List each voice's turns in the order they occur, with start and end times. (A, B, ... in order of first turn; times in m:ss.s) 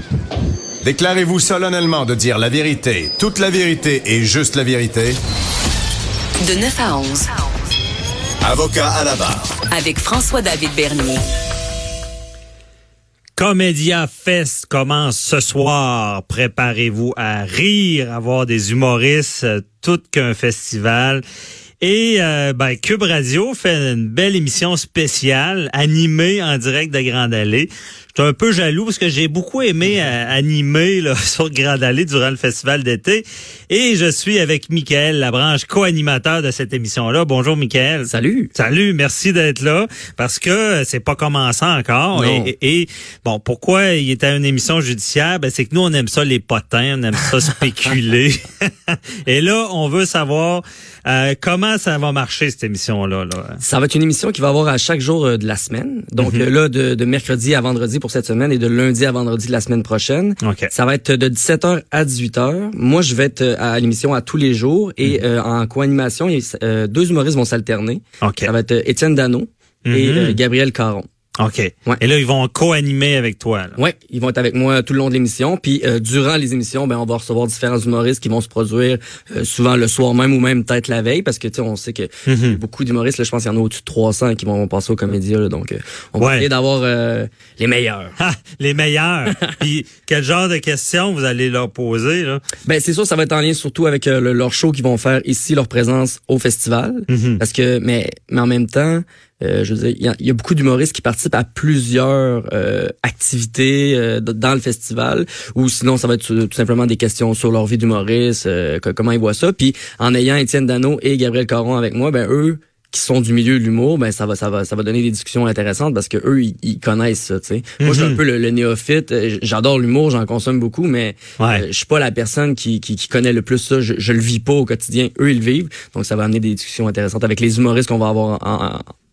0:00.8-0:05.2 A
0:06.4-0:07.3 B
0:08.4-0:09.6 A
0:09.7-0:11.2 B
0:13.4-0:21.2 C
0:21.8-0:53.6 C
0:38.1-0:38.5 D
0:42.1-0:42.5 D
0:53.6-1:11.1 D
0:56.2-0:56.4 C
1:00.4-1:00.7 C
1:08.2-1:08.5 C
1:09.9-1:10.4 C
1:11.4-1:13.8 C
1:13.8-1:28.1 D
1:22.3-1:22.6 C
1:26.2-1:26.5 C
1:28.2-1:32.4 C
1:32.7-2:08.8 D
1:37.1-1:37.4 C
1:57.8-1:58.2 C